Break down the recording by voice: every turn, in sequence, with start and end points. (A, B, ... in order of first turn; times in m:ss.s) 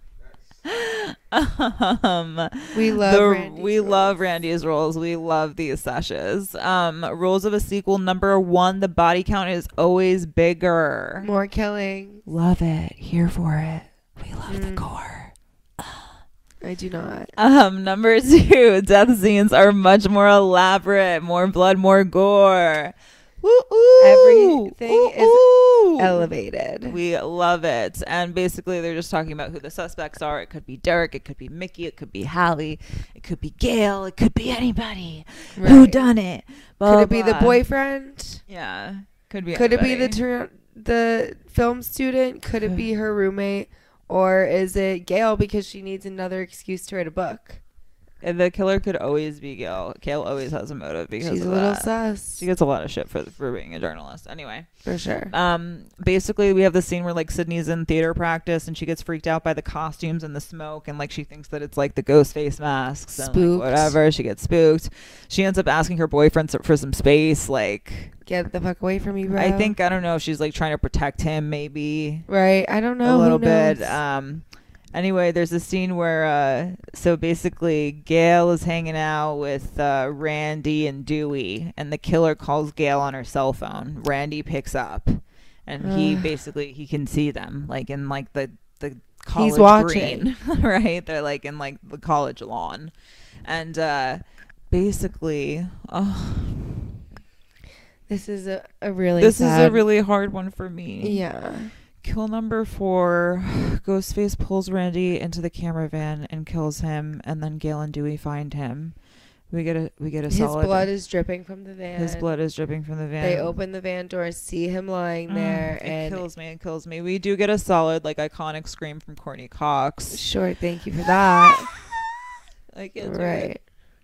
0:00.6-0:11.3 A
0:02.7-0:04.2 B
0:11.2-0:12.2 B
0:12.3-0:16.1 A
0:14.5-0:14.9 B
0:16.6-0:17.3 B
0:17.4-0:26.3 A
0:24.0-0:27.0 B
0:26.9-0:37.6 A
0:35.6-0:36.1 B
0:36.8-0:38.4 B
0:38.5-0:40.2 A
0:39.5-0:47.6 B
0:48.2-0:54.7 A
0:51.2-0:52.5 B
0:54.8-0:55.3 B
0:55.3-1:08.1 A
1:03.2-1:04.0 B
1:08.3-1:09.8 B
1:09.4-1:12.3 A
1:12.3-1:14.0 B
1:13.0-1:32.9 A
1:25.8-1:26.3 B
1:29.3-1:30.3 B
1:33.4-1:37.0 A
1:38.1-1:39.8 B
1:39.2-1:41.2 A
1:41.0-1:41.7 B
1:42.0-1:49.0 A
1:49.5-1:50.9 A
1:50.3-1:52.3 B
1:52.0-1:53.6 A
1:53.2-1:56.2 B
1:55.3-2:00.2 A
2:00.1-2:01.7 B
2:01.4-2:03.5 A
2:03.0-2:03.6 B